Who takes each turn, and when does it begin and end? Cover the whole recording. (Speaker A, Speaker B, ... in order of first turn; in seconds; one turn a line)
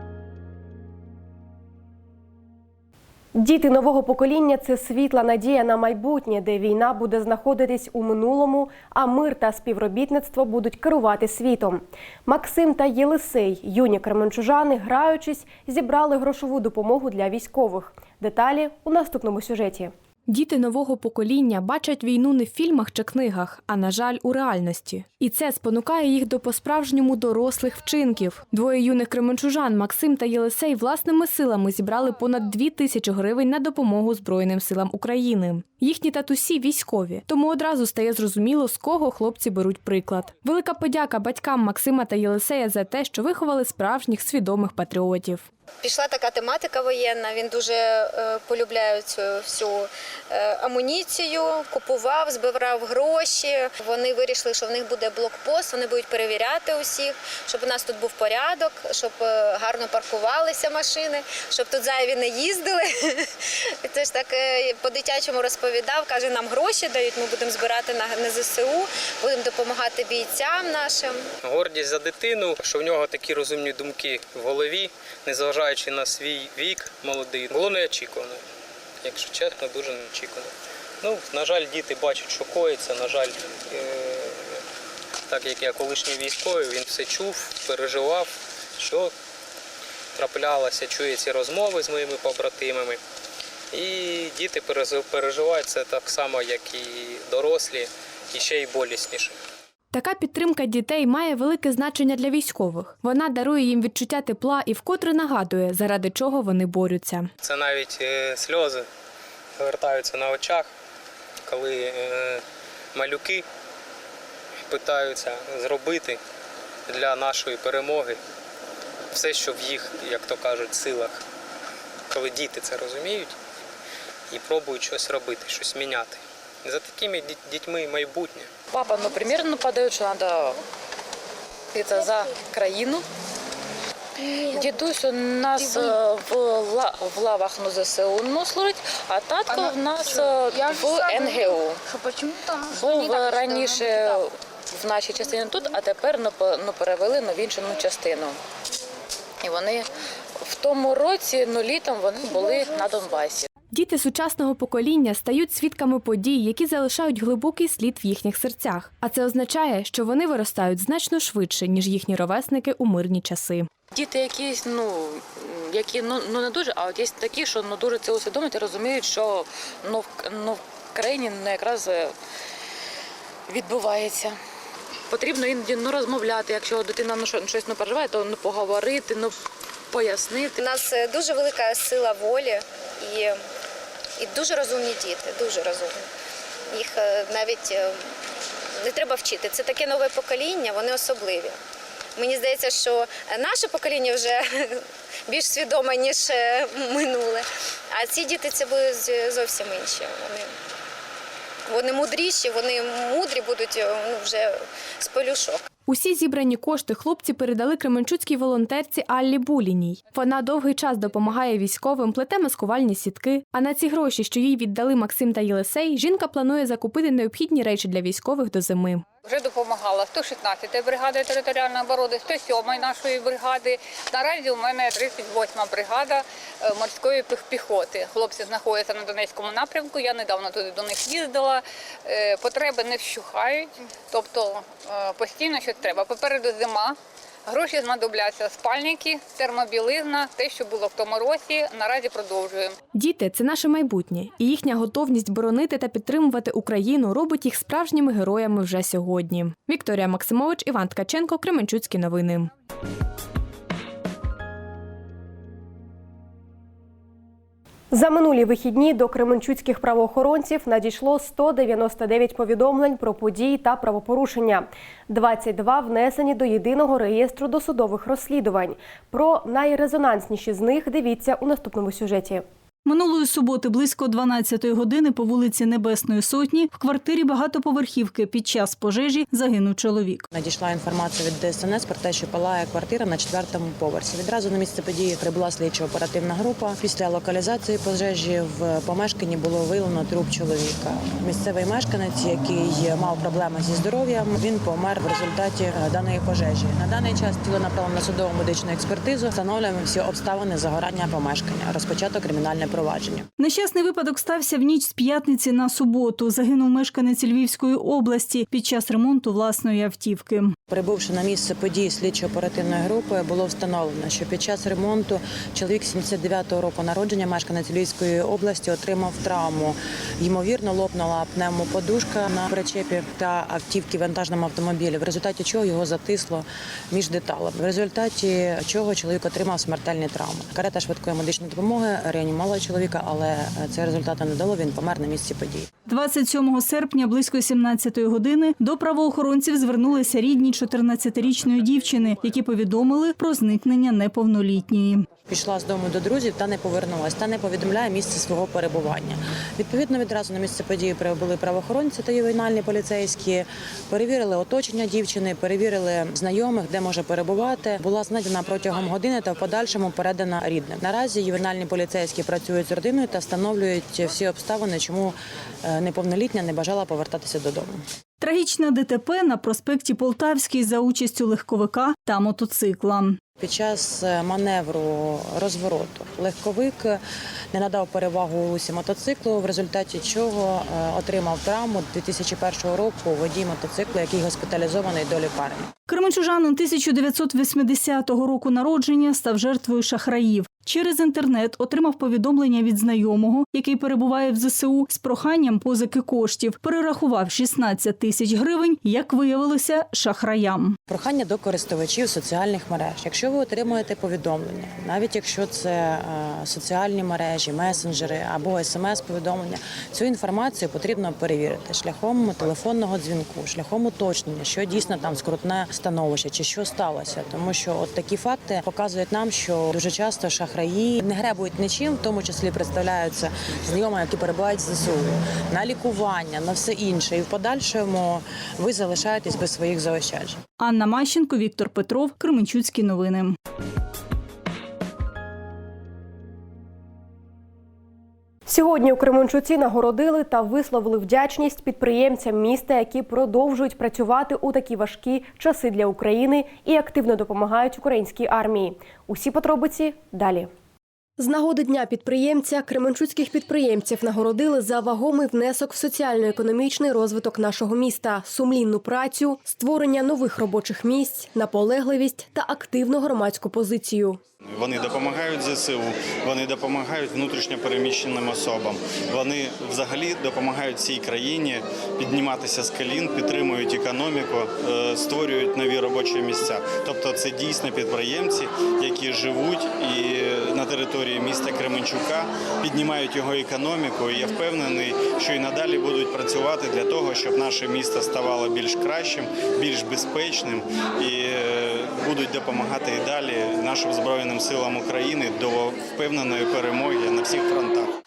Speaker A: 3.3-19.9
Speaker B: 20.3-45.5
Speaker C: 45.8-63.3
Speaker C: 63.8-71.2
Speaker D: 71.4-78.4
Speaker D: 79.0-80.5
Speaker D: 81.0-84.6
Speaker D: 85.3-89.1
Speaker D: 90.1-93.0
Speaker D: 93.7-99.4
Speaker B: 99.9-107.3
Speaker D: 107.4-108.9
Speaker D: 109.6-110.7
Speaker D: 111.5-112.4
Speaker D: 112.9-113.4
Speaker D: 114.7-116.2
Speaker D: 116.9-118.2
Speaker D: 119.1-121.2
Speaker D: 122.1-123.3
Speaker D: 124.3-128.5
Speaker E: 128.7-130.6
Speaker E: 131.7-133.0
Speaker E: 134.4-141.8
Speaker E: 142.7-148.4
Speaker E: 149.4-149.9
Speaker E: 150.4-153.5
Speaker B: 153.7-163.7
Speaker E: 163.9-172.1
Speaker E: 173.5-174.4
Speaker E: 175.1-179.3
Speaker E: 179.9-180.6
Speaker C: 180.6-183.4
Speaker C: 184.2-186.0
Speaker C: 186.7-188.0
Speaker C: 188.8-191.6
Speaker C: 192.2-200.5
Speaker C: 201.7-205.6
Speaker B: 205.9-219.0
Speaker F: 219.2-242.7
Speaker B: 242.9-252.5
Speaker A: 257.9-272.4
Speaker G: 272.9-280.2
Speaker H: 280.3-303.3
Speaker G: 303.4-310.6
Speaker H: 310.7-335.7
Speaker G: 335.9-345.1
Speaker H: 345.3-367.8
Speaker G: 368.2-373.2
Speaker H: 373.4-377.0
Speaker H: 377.5-385.7
Speaker G: 385.9-400.8
Speaker H: 400.9-430.4
Speaker G: 430.6-433.4
Speaker A: 438.5-450.5
Speaker A: 451.2-464.2
Speaker I: 464.5-497.9